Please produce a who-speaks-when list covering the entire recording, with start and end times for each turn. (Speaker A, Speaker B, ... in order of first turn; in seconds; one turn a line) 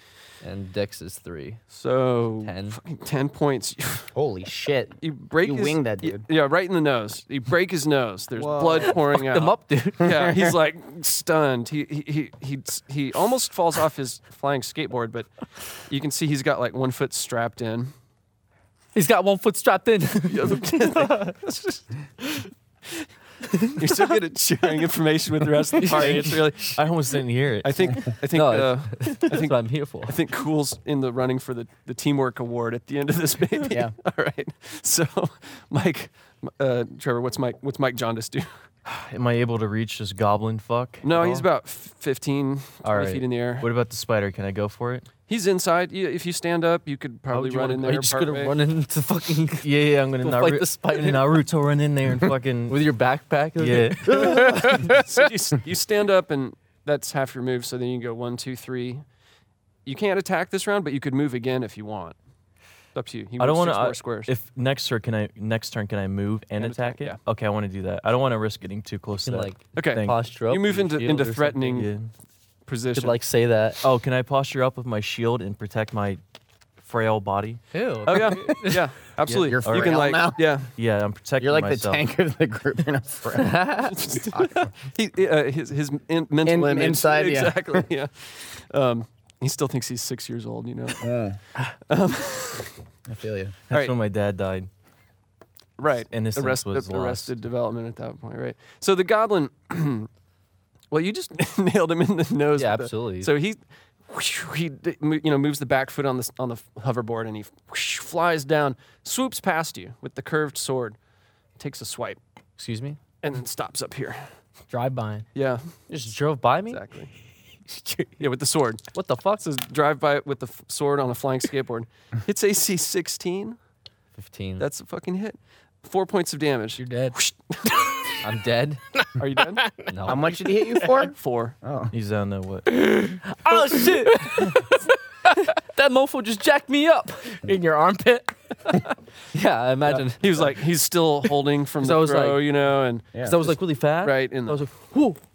Speaker A: 0.4-1.6
Speaker B: 1.7-4.1
Speaker A: 2.4-2.8
Speaker C: 4.1-6.2
Speaker B: 5.0-15.3
Speaker C: 8.4-9.0
Speaker A: 8.7-10.2
Speaker C: 10.0-10.5
Speaker B: 15.9-17.9
Speaker A: 18.9-21.2
Speaker B: 20.2-21.8
Speaker B: 23.8-26.8
Speaker D: 25.8-26.4
Speaker E: 25.9-28.1
Speaker B: 27.6-38.5
Speaker A: 28.3-30.1
Speaker E: 38.9-41.5
Speaker B: 41.0-43.7
Speaker E: 42.8-45.1
Speaker B: 45.3-48.6
Speaker A: 47.3-51.4
Speaker E: 49.6-52.8
Speaker A: 52.7-54.9
Speaker E: 53.6-54.6
Speaker B: 54.2-59.0
Speaker D: 54.4-55.2
Speaker B: 59.8-62.1
Speaker B: 62.9-64.3
Speaker E: 63.4-70.2
Speaker B: 66.6-67.2
Speaker A: 69.2-71.7
Speaker B: 69.7-71.9
Speaker E: 71.7-72.1
Speaker B: 72.7-73.2
Speaker A: 72.9-73.8
Speaker E: 73.8-76.2
Speaker E: 76.8-77.6
Speaker D: 77.7-78.8
Speaker B: 78.1-80.7
Speaker E: 79.3-82.0
Speaker C: 79.4-80.5
Speaker C: 81.4-84.7
Speaker A: 83.3-83.9
Speaker B: 83.8-91.0
Speaker C: 86.4-87.8
Speaker C: 91.0-91.4
Speaker B: 91.9-92.7
Speaker C: 93.1-93.5
Speaker E: 93.7-94.7
Speaker B: 95.8-100.1
Speaker E: 96.1-97.3
Speaker B: 100.9-111.0
Speaker A: 102.5-103.3
Speaker B: 111.6-112.2
Speaker A: 112.6-113.0
Speaker B: 113.2-114.2
Speaker D: 114.7-115.2
Speaker B: 115.3-115.6
Speaker A: 115.9-116.8
Speaker B: 116.7-117.1
Speaker D: 117.7-118.1
Speaker B: 118.2-118.8
Speaker A: 118.9-119.4
Speaker B: 119.4-123.6
Speaker A: 124.1-124.7
Speaker B: 124.6-127.7
Speaker D: 126.8-127.2
Speaker A: 128.2-128.8
Speaker D: 128.9-129.9
Speaker B: 129.2-129.6
Speaker A: 129.9-130.3
Speaker C: 130.0-131.9
Speaker B: 131.0-131.5
Speaker E: 131.9-132.8
Speaker D: 132.7-135.5
Speaker A: 133.2-134.6
Speaker A: 135.5-137.3
Speaker D: 137.4-138.8
Speaker A: 139.3-140.5
Speaker B: 139.8-143.1
Speaker A: 141.8-142.4
Speaker A: 143.2-145.2
Speaker B: 144.0-144.6